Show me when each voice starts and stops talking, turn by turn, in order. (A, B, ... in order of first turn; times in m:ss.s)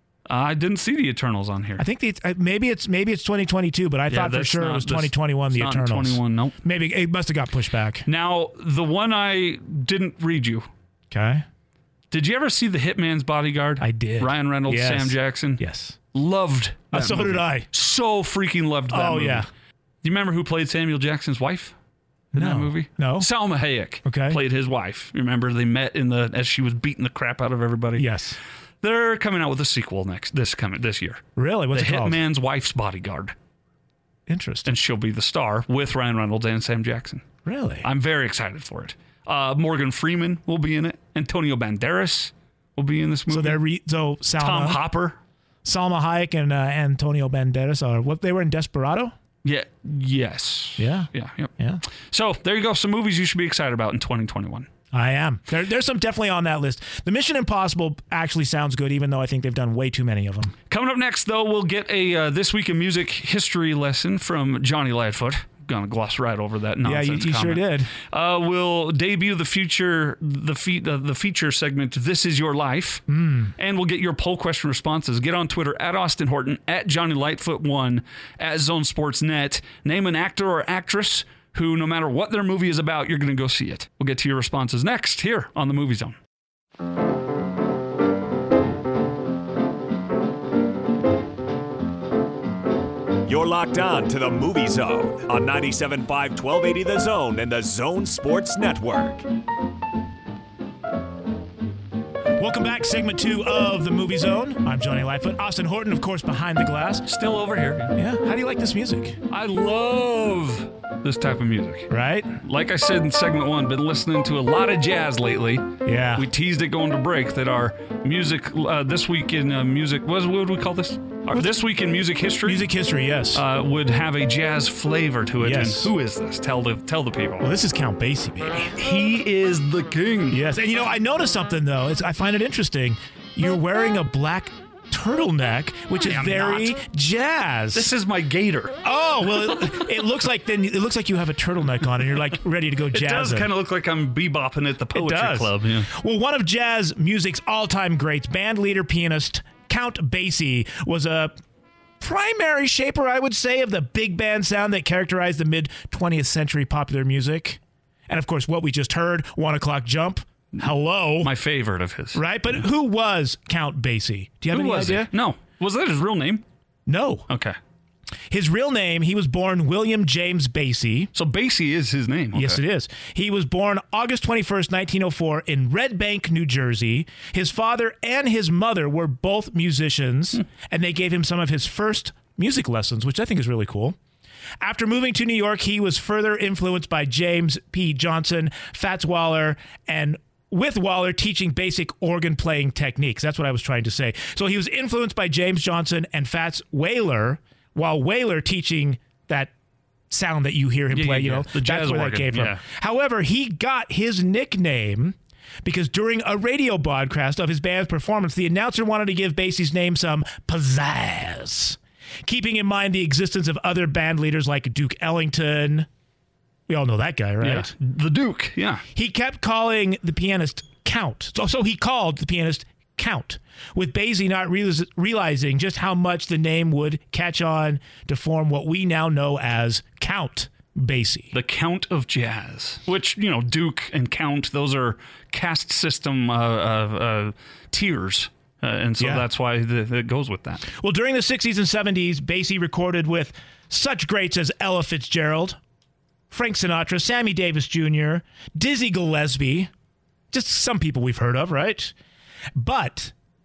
0:00.3-0:01.8 A
0:01.8-0:08.1 B
0:04.1-0:06.6 A
0:08.1-0:10.7 A
0:11.1-0:11.4 B
0:12.1-0:15.6 A
0:13.8-0:16.0 B
0:16.1-0:19.5 A
0:16.9-0:17.7 B
0:18.9-0:19.5 B
0:20.0-0:21.8 A
0:22.3-0:23.3 B
0:22.3-0:28.1 A
0:24.0-0:24.4 B
0:28.0-0:28.4 B
0:28.8-0:33.4 A
0:31.4-0:32.2 B
0:34.3-0:34.7 B
0:34.6-0:37.2 A
0:37.4-0:37.9 B
0:37.8-0:43.6 A
0:43.3-0:44.8 B
0:44.4-0:45.2 A
0:45.6-0:49.1 B
0:49.4-0:51.5 A
0:50.8-0:51.8 B
0:52.1-0:54.7 A
0:54.9-1:00.5 B
1:00.7-1:26.2 A
1:06.8-1:07.9 B
1:13.1-1:13.5 B
1:33.3-1:39.2 C
1:42.4-1:47.1 B
1:47.0-1:48.0 A
1:48.0-1:49.2 B
1:49.3-2:02.6 A
1:51.9-1:52.4 B
1:55.8-1:56.3 B
2:02.4-2:03.4 B
2:03.3-2:07.5 A
2:05.4-2:05.9 B
2:07.4-2:08.7 B
2:08.8-2:10.4 A
2:10.3-2:17.9 B
2:16.0-2:16.7 A
2:17.7-2:18.8 A
2:18.8-2:23.5 B
2:22.9-2:25.9 A
2:24.9-2:31.4 B
2:32.0-2:41.3 B
2:41.2-2:42.2 A
2:42.1-2:45.1 B
2:44.5-2:46.4 A
2:46.9-2:47.3 B
2:47.3-2:47.6 A
2:48.3-2:51.1 B
2:51.1-2:52.6 A
2:52.3-3:04.0 B
3:04.6-3:19.5 B
3:20.1-3:35.9 B
3:20.9-3:22.6 A
3:36.7-3:37.7 B
3:37.4-3:38.8 A
3:38.9-3:51.3 B
3:51.3-4:00.6 A
3:59.0-3:59.3 B
4:00.7-4:05.6 B
4:06.3-4:09.7 B
4:10.3-4:11.9 B
4:12.6-4:13.1 B